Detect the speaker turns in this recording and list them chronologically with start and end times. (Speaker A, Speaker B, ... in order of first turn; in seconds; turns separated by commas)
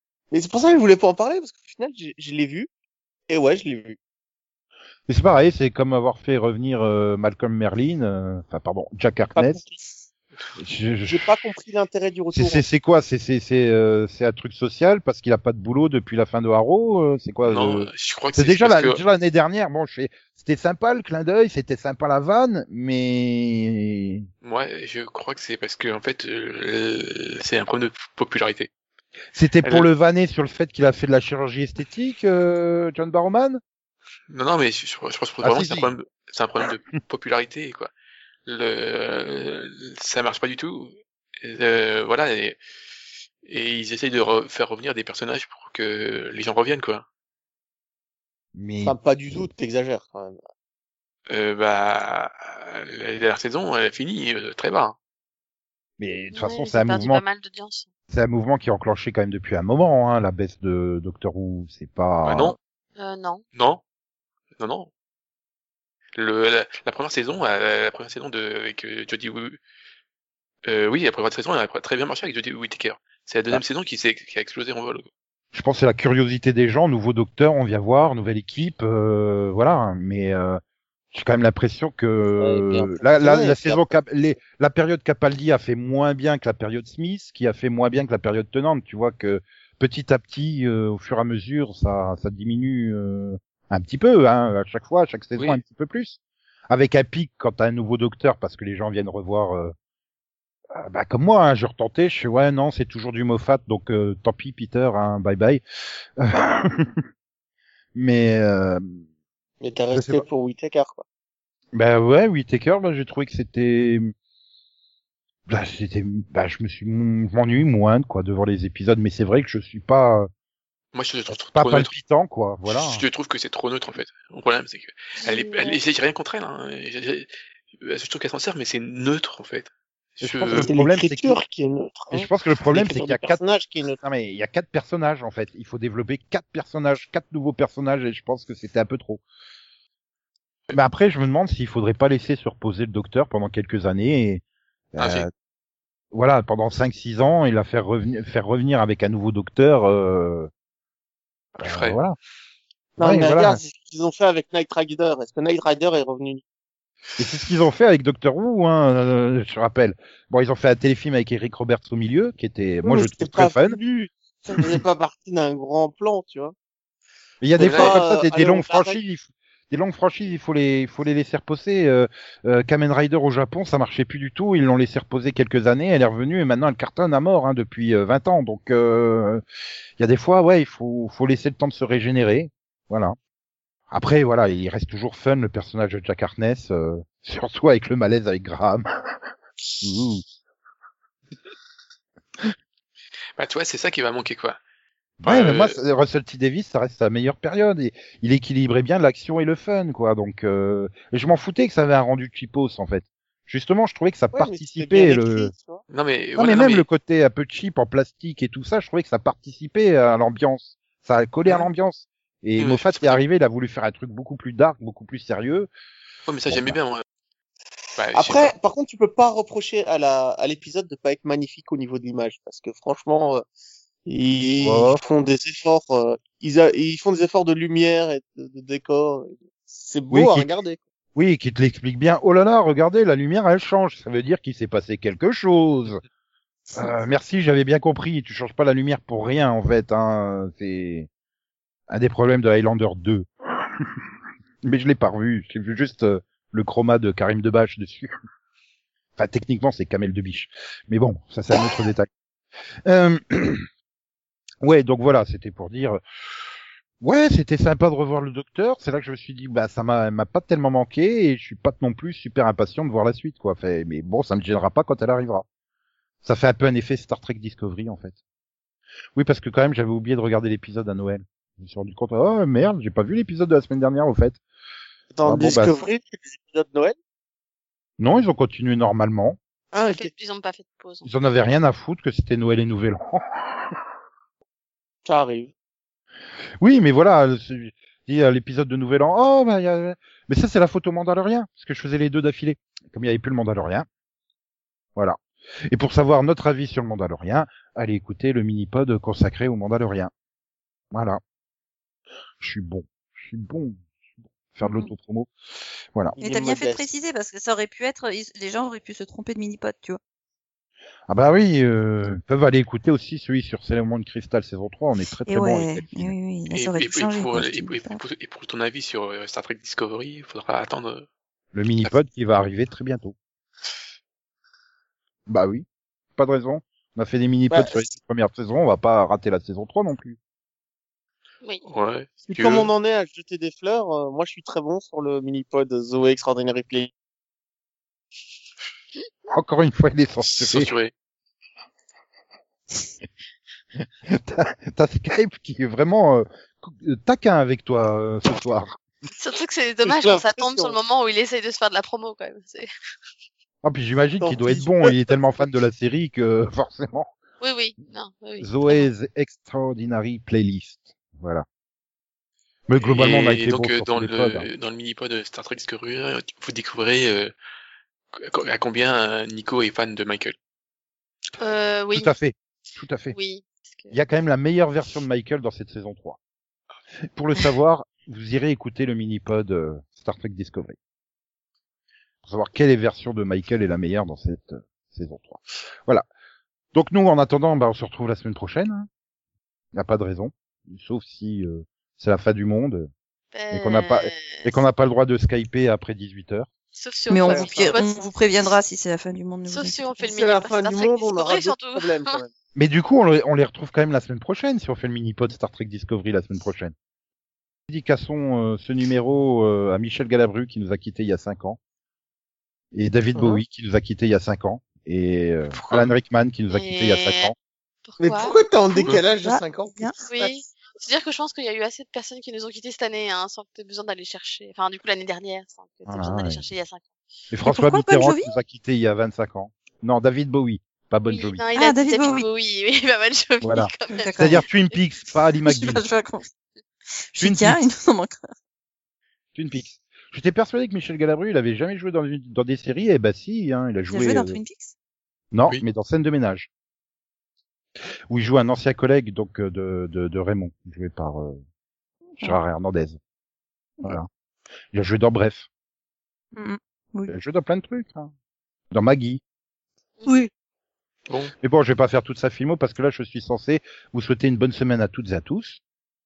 Speaker A: 0.3-2.7, Speaker A: 3.3-4.0, Speaker B: 5.1-9.6, Speaker A: 9.3-9.8, Speaker B: 10.6-11.2, Speaker A: 11.1-12.7, Speaker B: 12.3-24.3, Speaker C: 17.4-19.0, Speaker C: 24.4-28.7, Speaker B: 29.3-33.6, Speaker C: 29.6-29.9, Speaker C: 34.3-37.9, Speaker B: 35.4-35.9, Speaker C: 38.5-42.6, Speaker C: 43.5-47.1, Speaker B: 48.5-49.0, Speaker A: 48.8-50.4, Speaker C: 51.3-55.0, Speaker B: 56.0-57.2, Speaker D: 56.3-57.9, Speaker B: 58.1-62.6, Speaker C: 62.2-62.6, Speaker D: 63.0-63.4, Speaker C: 63.5-63.8, Speaker C: 64.6-64.9, Speaker C: 66.2-69.6, Speaker C: 70.7-75.1, Speaker B: 75.5-80.6, Speaker B: 81.1-96.2, Speaker A: 82.4-84.0, Speaker C: 95.4-95.6, Speaker B: 96.7-99.7, Speaker B: 100.8-107.0, Speaker B: 108.0-109.0, Speaker A: 109.6-111.0, Speaker B: 109.9-110.3, Speaker B: 111.7-114.1, Speaker B: 115.5-120.3, Speaker C: 120.9-121.9, Speaker B: 121.4-123.0, Speaker C: 122.7-130.7, Speaker D: 125.2-125.8, Speaker B: 130.2-131.4, Speaker A: 130.5-134.0, Speaker B: 132.1-133.4, Speaker B: 134.0-139.2, Speaker B: 140.7-145.3, Speaker C: 145.0-145.3, Speaker B: 146.1-150.5, Speaker B: 151.6-152.2, Speaker C: 151.6-152.0, Speaker A: 153.0-156.4, Speaker B: 153.0-153.6, Speaker B: 157.2-163.8, Speaker A: 162.8-166.5, Speaker B: 167.4-179.4, Speaker C: 167.6-168.0, Speaker A: 167.6-169.0, Speaker B: 180.0-183.2, Speaker B: 183.9-188.8, Speaker B: 189.8-190.2, Speaker C: 193.4-194.6, Speaker B: 195.2-205.5, Speaker C: 195.2-195.8, Speaker A: 204.3-205.8, Speaker C: 205.9-206.8, Speaker B: 206.4-215.7, Speaker C: 212.6-213.2, Speaker C: 216.3-217.0, Speaker B: 216.5-216.8, Speaker C: 218.0-218.5, Speaker A: 218.2-223.4, Speaker A: 224.1-230.8, Speaker B: 224.6-225.0, Speaker B: 230.1-230.5, Speaker B: 231.2-236.0, Speaker B: 236.7-241.1, Speaker B: 241.9-243.9, Speaker B: 244.6-248.1, Speaker B: 249.2-252.1, Speaker B: 252.8-253.7, Speaker B: 254.6-256.0, Speaker B: 257.0-265.4, Speaker B: 266.2-268.2, Speaker B: 269.1-274.4, Speaker A: 275.1-277.0, Speaker B: 275.2-275.8, Speaker B: 278.0-279.4, Speaker A: 279.7-280.1, Speaker D: 279.9-281.1, Speaker B: 281.0-283.8, Speaker A: 285.1-285.5, Speaker B: 286.6-293.9, Speaker B: 295.7-300.1, Speaker B: 300.9-301.2, Speaker B: 302.4-303.8, Speaker B: 304.6-305.3, Speaker E: 304.6-304.9, Speaker A: 306.1-306.9, Speaker E: 306.2-310.0, Speaker B: 311.1-316.1, Speaker E: 315.3-318.0, Speaker C: 316.5-321.1, Speaker B: 321.5-323.1, Speaker B: 325.3-325.6, Speaker B: 326.2-330.2, Speaker A: 327.5-327.8, Speaker C: 331.7-332.7, Speaker A: 332.3-336.9, Speaker B: 339.3-340.7, Speaker C: 340.3-340.9, Speaker B: 344.1-348.8, Speaker D: 349.1-352.7, Speaker A: 349.8-350.8, Speaker B: 353.6-357.1, Speaker A: 354.2-354.9, Speaker D: 357.4-358.9, Speaker B: 358.4-361.4, Speaker B: 362.7-364.5, Speaker C: 362.8-367.3, Speaker C: 368.1-370.4, Speaker D: 371.4-372.1, Speaker B: 371.9-373.2, Speaker D: 373.1-373.9, Speaker B: 373.9-376.2, Speaker B: 377.1-380.8, Speaker B: 382.2-386.0, Speaker B: 386.7-388.9, Speaker B: 389.7-392.9, Speaker D: 393.3-394.5, Speaker B: 393.5-396.5, Speaker D: 396.8-398.0, Speaker E: 397.1-400.0, Speaker A: 397.2-397.8, Speaker D: 399.5-402.2, Speaker A: 400.0-402.3, Speaker B: 402.6-406.7, Speaker B: 407.7-411.6, Speaker B: 412.7-417.4, Speaker A: 413.1-413.4, Speaker C: 415.6-415.9, Speaker D: 416.5-417.3, Speaker D: 417.9-418.8, Speaker A: 418.0-420.5, Speaker E: 418.8-420.0, Speaker D: 420.1-426.9, Speaker B: 425.9-426.4, Speaker B: 427.3-431.4, Speaker E: 427.4-428.4, Speaker D: 431.1-434.4, Speaker E: 431.6-432.3, Speaker B: 433.4-435.9, Speaker E: 433.9-434.5, Speaker E: 435.4-436.3, Speaker E: 437.1-438.2, Speaker B: 437.2-437.6, Speaker B: 439.4-444.4, Speaker E: 443.9-444.7, Speaker B: 445.3-446.5, Speaker B: 448.1-451.4, Speaker B: 452.2-453.0, Speaker B: 454.7-455.5, Speaker E: 456.3-457.1, Speaker B: 457.1-458.1, Speaker B: 458.7-459.2, Speaker C: 461.1-461.3, Speaker B: 461.4-465.6